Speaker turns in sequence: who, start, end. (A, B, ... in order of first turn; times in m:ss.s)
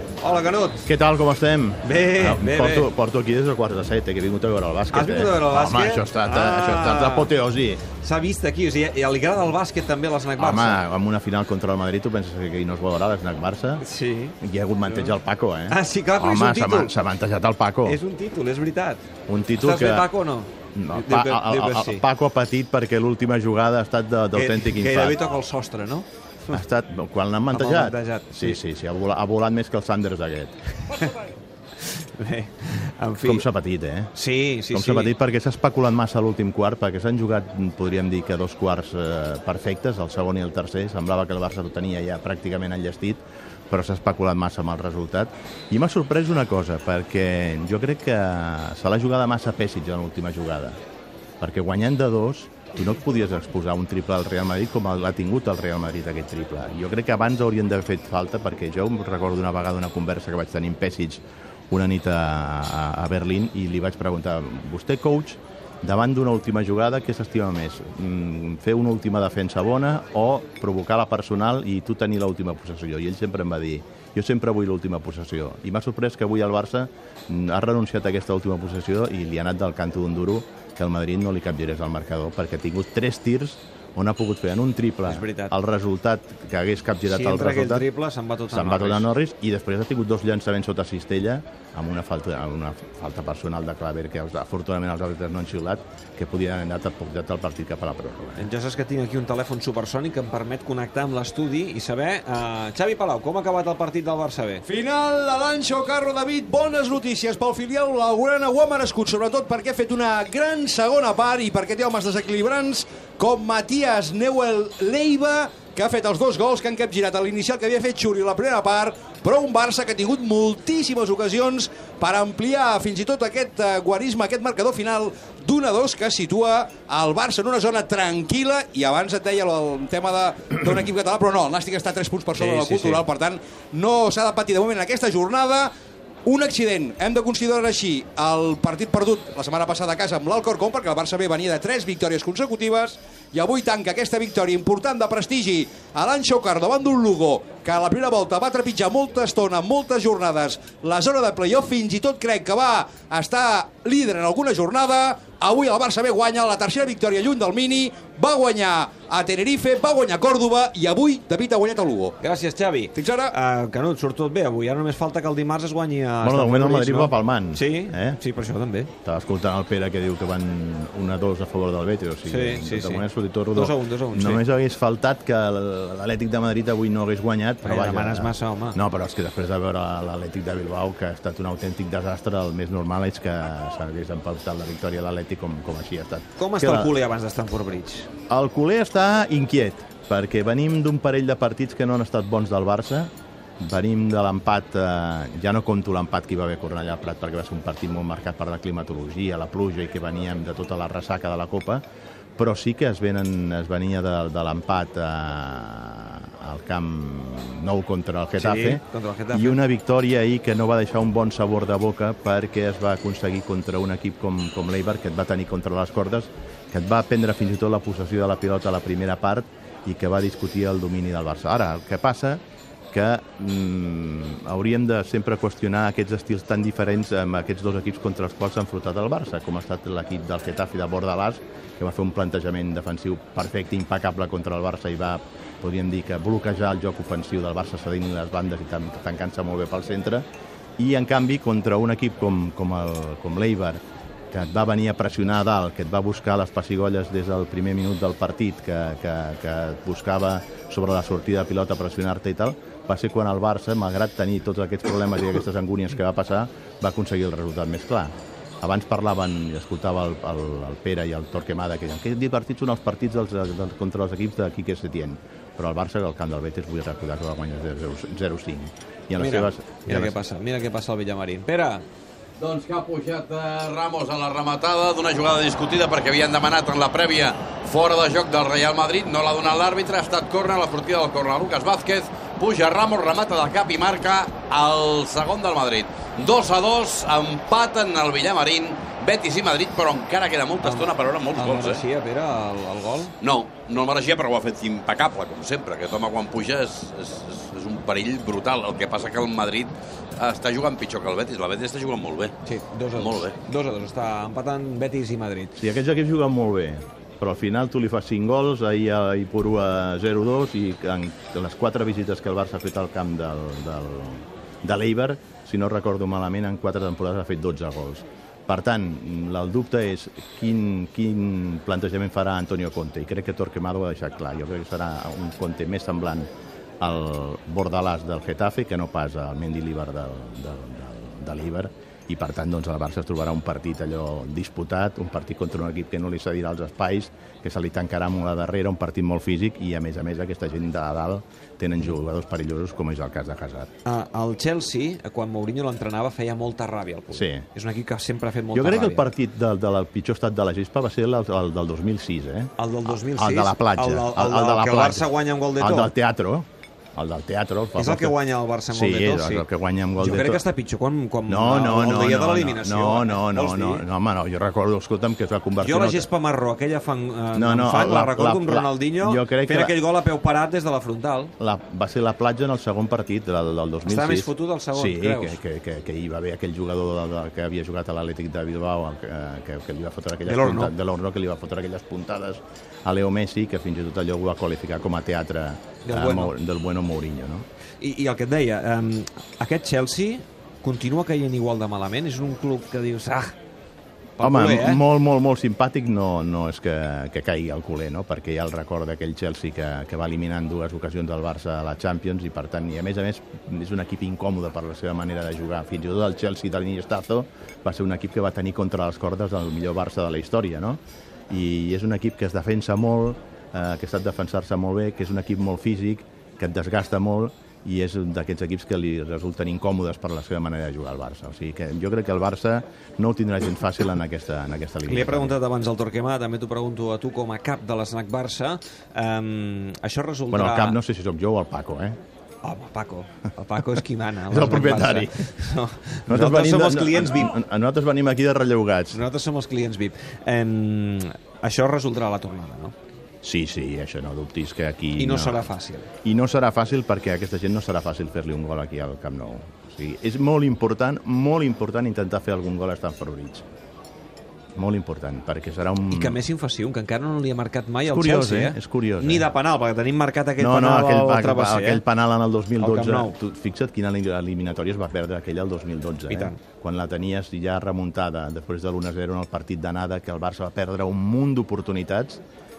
0:00.2-0:00.9 A
0:00.9-0:07.8 B
0:01.8-0:02.9 A
0:04.9-0:07.3 A
0:07.9-0:10.8 A
0:10.4-0:13.8 B
0:13.8-0:14.4 A
0:14.4-0:18.0 B
0:14.9-0:15.1 A
0:15.7-0:16.9 A
0:17.8-0:19.0 A
0:19.3-0:20.1 B
0:19.6-0:22.1 A
0:20.8-0:25.2 B
0:24.3-0:26.6 A
0:26.5-0:30.6 B
0:27.5-0:28.6 A
0:30.9-0:33.4 A
0:33.2-0:34.1 B
0:34.1-0:35.1 A
0:34.7-0:50.8 B
0:51.4-1:27.9 B
1:25.1-1:25.5 A
1:27.0-1:29.1 A
1:28.5-1:38.5 B
1:38.4-1:44.6 A
1:44.7-2:15.7 C
2:12.4-2:13.0 A
2:16.2-2:42.2 C
2:42.2-2:48.9 A
2:43.0-2:43.3 C
2:46.2-2:48.2 B
2:49.0-3:06.9 B
2:52.2-2:54.4 A
2:57.6-2:58.8 A
3:06.4-3:08.1 A
3:08.3-3:21.8 B
3:22.4-3:42.4 B
3:28.4-3:29.6 A
3:42.9-4:00.2 B
4:00.8-4:03.8 B
4:04.3-4:30.1 B
4:29.2-4:31.8 A
4:32.4-4:51.8 D
4:50.6-4:53.1 A
4:53.2-5:02.3 D
5:02.4-5:05.6 A
5:03.0-5:03.4 D
5:05.6-5:26.3 B
5:26.8-5:43.7 B
5:43.8-5:49.1 A
5:47.1-5:47.4 B
5:48.5-5:58.2 B
5:52.6-5:55.9 A
5:57.8-5:59.5 A
5:58.7-6:00.4 B
6:00.0-6:03.8 A
6:01.3-6:06.1 B
6:05.6-6:11.3 A
6:07.3-6:09.8 B
6:11.4-6:27.5 B
6:13.9-6:15.4 A
6:20.3-6:20.7 A
6:25.8-6:26.3 A
6:27.8-6:33.4 A
6:34.2-6:34.8 A
6:34.2-7:05.4 B
7:04.8-7:10.8 A
7:10.3-7:12.0 B
7:12.4-7:17.4 A
7:14.3-7:15.2 B
7:16.1-7:19.0 B
7:18.9-7:22.8 A
7:23.2-7:25.5 B
7:25.0-7:25.9 A
7:26.0-7:33.5 B
7:34.6-7:36.2 B
7:35.9-7:41.8 A
7:37.9-7:39.3 B
7:40.4-7:52.2 B
7:42.6-7:43.1 A
7:46.1-7:46.4 A